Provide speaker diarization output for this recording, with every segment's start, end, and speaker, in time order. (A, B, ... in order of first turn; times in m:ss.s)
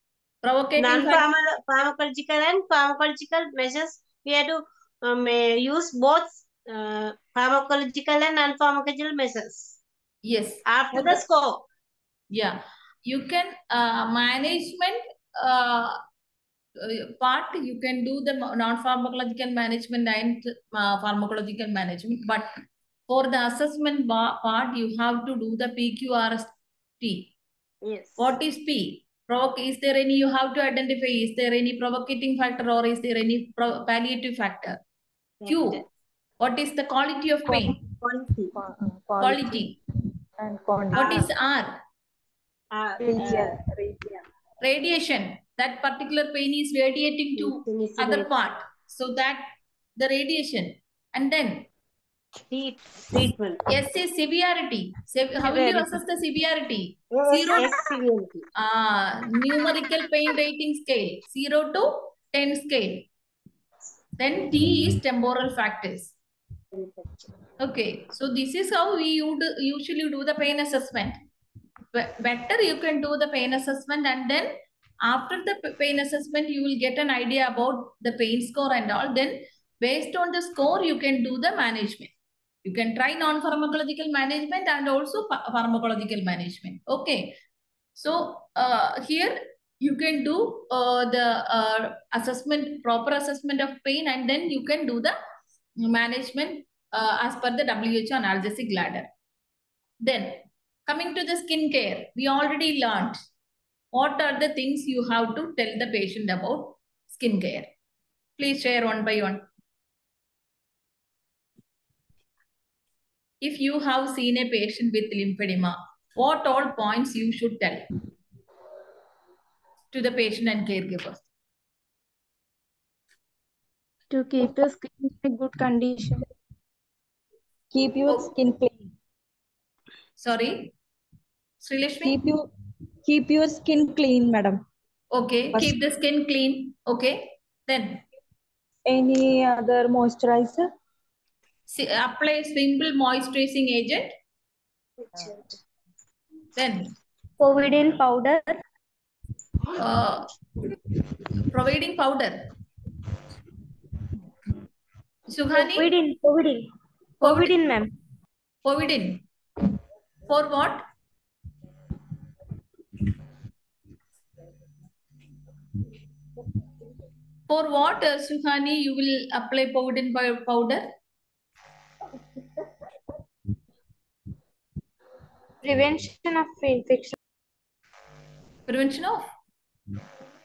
0:00.4-0:01.3 A
0:00.8-0:09.8 B
0:10.2-0:11.2 A
0:10.7-0:11.6 B
0:12.3-0:16.0 A
0:16.8-0:27.3 A
0:27.8-0:28.3 B
0:28.2-0:34.8 A
0:35.4-0:35.8 B
0:35.5-0:35.8 A
0:36.4-0:37.8 A
0:38.5-0:39.7 C
0:39.2-0:39.8 A
0:40.4-0:41.3 C
0:40.9-0:41.8 A
0:41.0-0:41.3 B
0:42.7-0:43.5 B
0:43.0-0:44.2 C
0:44.6-0:51.7 A
0:47.4-0:48.3 B
0:52.5-0:53.6 B
0:53.7-0:57.8 A
0:55.4-0:55.8 B
0:57.1-0:58.4 B
0:58.6-1:03.1 A
1:04.2-1:06.2 A
1:06.7-1:07.1 B
1:07.6-1:11.2 A
1:11.9-1:14.5 A
1:15.0-1:22.1 A
1:22.6-1:27.4 A
1:28.0-1:35.2 A
1:35.8-1:39.1 A
1:40.0-1:43.2 A
1:43.9-1:47.7 A
1:48.4-1:49.4 A
1:53.4-1:57.9 A
1:59.9-2:01.3 A
2:04.1-2:06.3 D
2:07.7-2:08.9 C
2:10.2-2:10.7 A
2:11.6-2:12.2 A
2:12.0-2:12.5 C
2:13.0-2:14.6 C
2:15.1-2:18.0 A
2:18.9-2:20.6 C
2:21.7-2:24.2 A
2:26.6-2:26.9 A
2:27.4-2:28.6 E
2:29.8-2:30.3 A
2:31.5-2:32.5 A
2:35.3-2:35.9 A
2:35.5-2:36.7 E
2:37.2-2:37.9 E
2:37.2-2:37.5 A
2:38.6-2:39.2 A
2:40.3-2:40.8 A
2:47.5-2:50.9 A
2:55.6-2:57.2 E
2:58.7-2:59.2 A